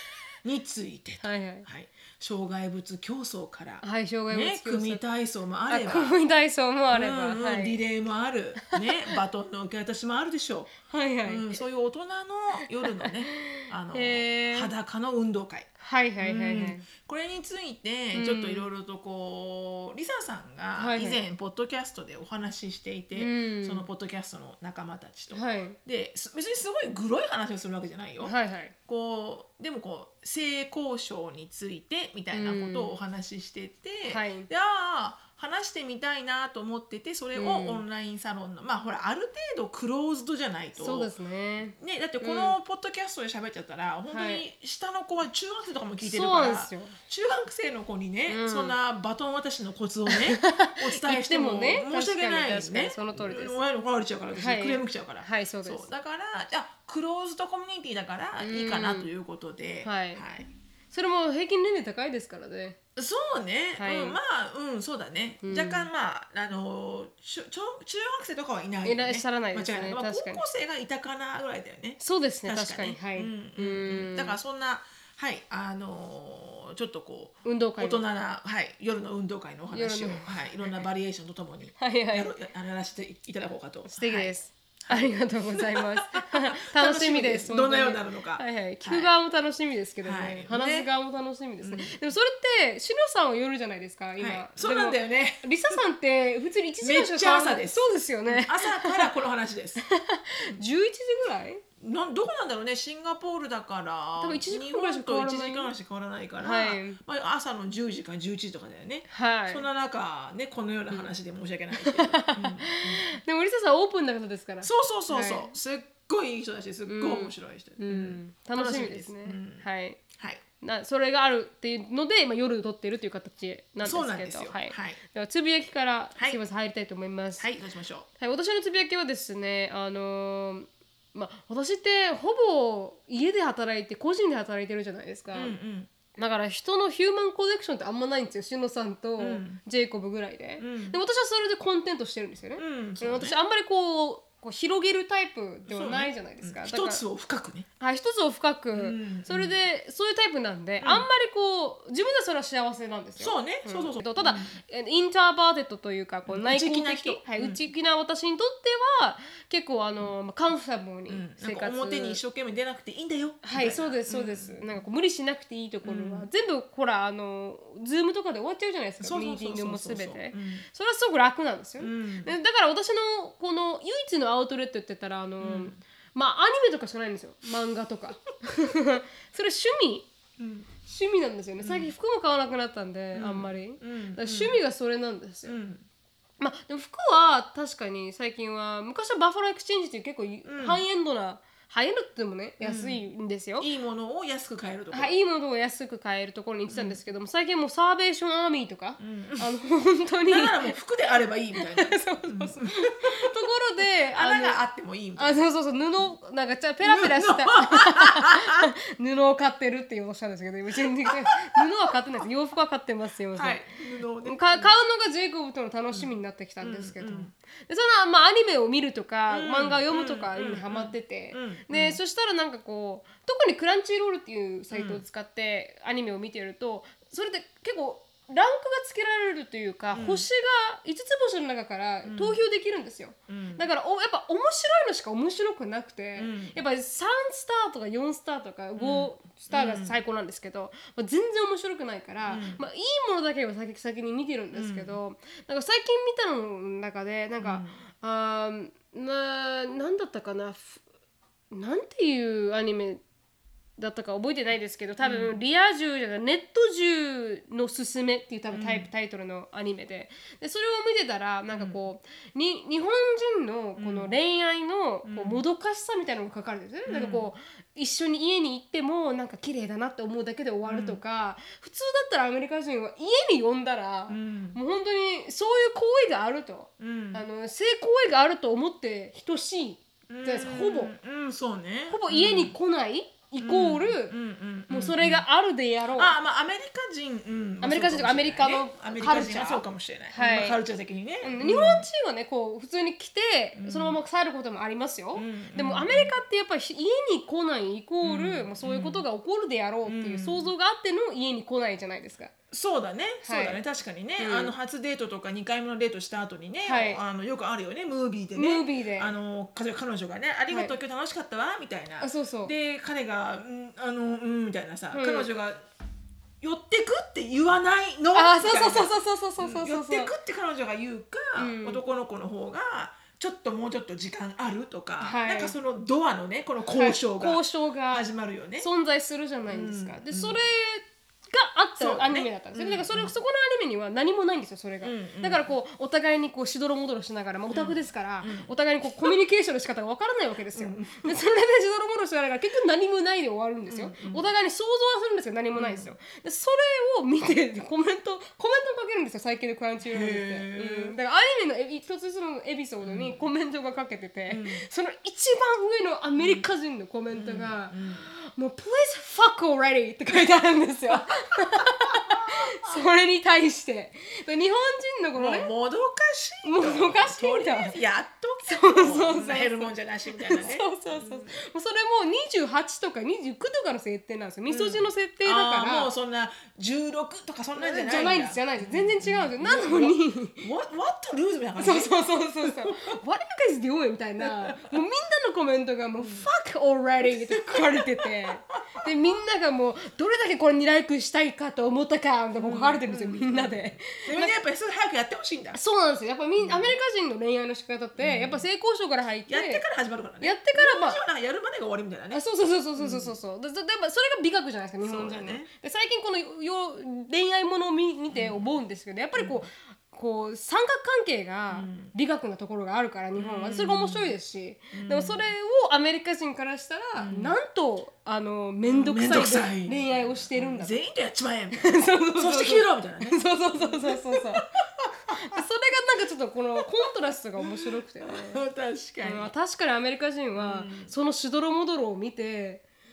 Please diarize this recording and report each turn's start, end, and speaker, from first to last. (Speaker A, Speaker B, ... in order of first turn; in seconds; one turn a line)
Speaker A: 0.4-6.2
Speaker B: 1.2-1.7
Speaker B: 3.8-5.0
Speaker B: 5.7-7.8
Speaker A: 6.9-10.7
Speaker B: 8.8-9.2
Speaker B: 10.9-11.6
Speaker A: 11.2-15.7
Speaker B: 12.8-14.7
Speaker B: 15.8-16.9
Speaker A: 16.2-28.3
Speaker B: 18.1-18.7
Speaker B: 20.8-21.2
Speaker B: 23.1-23.9
Speaker B: 25.3-25.8
Speaker B: 28.2-28.7
Speaker A: 28.9-41.1
Speaker B: 32.3-32.9
Speaker B: 34.1-34.5
Speaker B: 37.3-37.8
Speaker B: 40.8-42.5
Speaker A: 41.7-60.5
Speaker B: 44.1-44.4
Speaker B: 46.0-47.0
Speaker B: 48.3-48.8
Speaker B: 50.1-53.6
Speaker B: 54.3-55.9
Speaker B: 58.4-59.1
Speaker B: 59.8-60.2
Speaker B: 60.9-62.8
Speaker A: 63.0-89.1
Speaker B: 63.8-64.2
Speaker B: 65.4-65.9
Speaker B: 68.8-70.4
Speaker B: 72.0-74.4
Speaker B: 77.4-78.0
Speaker B: 79.7-80.3
Speaker B: 81.8-82.3
Speaker B: 83.9-99.1
Speaker A: 90.0-90.9
Speaker A: 91.6-92.0
Speaker A: 94.2-95.8
Speaker A: 96.8-99.8
Speaker B: 99.8-101.6
Speaker A: 101.8-113.1
Speaker B: 104.2-105.7
Speaker B: 106.4-107.0
Speaker B: 109.1-109.7
Speaker B: 111.7-115.5
Speaker A: 114.6-119.6
Speaker B: 116.8-120.0
Speaker A: 120.2-120.4
Speaker B: 120.6-127.5
Speaker A: 123.8-125.0
Speaker A: 127.4-128.1
Speaker B: 128.2-135.6
Speaker A: 135.3-135.9
Speaker B: 136.1-147.0
Speaker A: 139.2-139.6
Speaker A: 140.6-141.0
Speaker A: 142.6-143.4
Speaker A: 145.7-147.7
Speaker B: 147.8-162.2
Speaker A: 148.7-149.6
Speaker A: 150.8-151.1
Speaker A: 153.2-154.6
Speaker A: 156.3-157.6
Speaker A: 161.1-164.7
Speaker B: 163.4-180.1
Speaker A: 165.8-166.3
Speaker A: 169.0-170.7
Speaker A: 171.8-172.3
Speaker A: 175.4-175.8
Speaker A: 180.4-180.7
Speaker B: 180.8-185.6
Speaker A: 181.6-181.9
Speaker A: 183.1-184.6
Speaker A: 185.4-185.8
Speaker B: 186.4-193.7
Speaker A: 190.4-190.8
Speaker A: 192.6-193.0
Speaker A: 193.6-195.2
Speaker B: 194.9-200.8
Speaker A: 196.7-197.0
Speaker A: 199.0-199.5
Speaker A: 200.3-203.3
Speaker B: 201.6-204.6
Speaker A: 204.1-205.4
Speaker B: 205.2-213.7
Speaker A: 206.8-208.7
Speaker A: 211.1-211.6
Speaker A: 213.3-214.7
Speaker B: 214.2-250.8
Speaker A: 215.9-217.3
Speaker A: 219.3-222.0
Speaker A: 224.7-225.0
Speaker A: 229.9-230.3
Speaker A: 232.0-232.4
Speaker A: 233.3-233.7
Speaker A: 236.2-236.6
Speaker A: 238.8-240.0
Speaker A: 242.2-242.7
Speaker A: 244.5-245.0
Speaker A: 247.4-247.8
Speaker B: 251.5-253.0
Speaker B: 253.8-280.9
Speaker A: 255.0-255.4
Speaker A: 258.5-258.9
Speaker A: 261.5-261.8
Speaker A: 263.8-264.1
Speaker A: 265.0-265.4
Speaker A: 266.9-267.3
Speaker A: 270.6-271.0
Speaker A: 274.1-274.6
Speaker A: 276.8-277.2
Speaker A: 280.1-282.6
Speaker B: 281.9-284.1
Speaker A: 283.4-285.3
Speaker B: 284.7-286.1
Speaker A: 285.9-291.9
Speaker B: 287.6-290.6
Speaker B: 291.2-302.3
Speaker A: 293.6-294.0
Speaker A: 295.1-296.1
Speaker A: 298.0-299.1
Speaker A: 299.9-300.5
Speaker A: 302.5-315.6
Speaker B: 303.2-303.6
Speaker B: 304.2-304.5
Speaker B: 306.6-307.0
Speaker B: 308.3-309.1
Speaker B: 310.5-310.7
Speaker B: 312.0-312.5
Speaker B: 314.9-315.3
Speaker A: 316.4-328.7
Speaker B: 318.1-320.1
Speaker B: 321.4-321.8
Speaker B: 325.0-325.5
Speaker B: 326.7-365.5
Speaker A: 329.4-330.4
Speaker A: 331.8-333.1
Speaker A: 334.8-335.5
Speaker A: 337.5-338.5
Speaker A: 340.5-341.2
Speaker A: 343.7-344.3
Speaker A: 345.6-345.9
Speaker A: 349.8-350.9
Speaker A: 352.8-353.2
Speaker A: 354.3-354.7
Speaker A: 356.2-356.4
Speaker A: 357.1-358.1
Speaker A: 360.9-362.8
Speaker A: 365.1-371.3
Speaker B: 366.4-367.8
Speaker B: 368.4-375.9
Speaker A: 374.5-383.0
Speaker B: 377.6-380.4
Speaker B: 381.6-394.4
Speaker A: 384.2-384.8
Speaker A: 386.0-386.3
Speaker A: 387.0-388.9
Speaker A: 392.4-395.6
Speaker B: 395.5-399.6
Speaker A: 396.4-396.8
Speaker A: 398.0-398.4
Speaker A: 399.3-402.2
Speaker B: 400.2-401.0
Speaker B: 402.1-420.8
Speaker A: 402.8-403.2
Speaker A: 404.8-405.5
Speaker A: 408.1-408.5
Speaker A: 409.1-409.5
Speaker A: 411.5-411.9
Speaker A: 413.1-414.1
Speaker A: 414.7-415.3
Speaker A: 417.0-417.3
Speaker A: 418.6-425.4
Speaker B: 421.5-424.6
Speaker B: 425.1-428.4
Speaker A: 427.4-429.3
Speaker B: 429.0-432.6
Speaker A: 430.4-430.9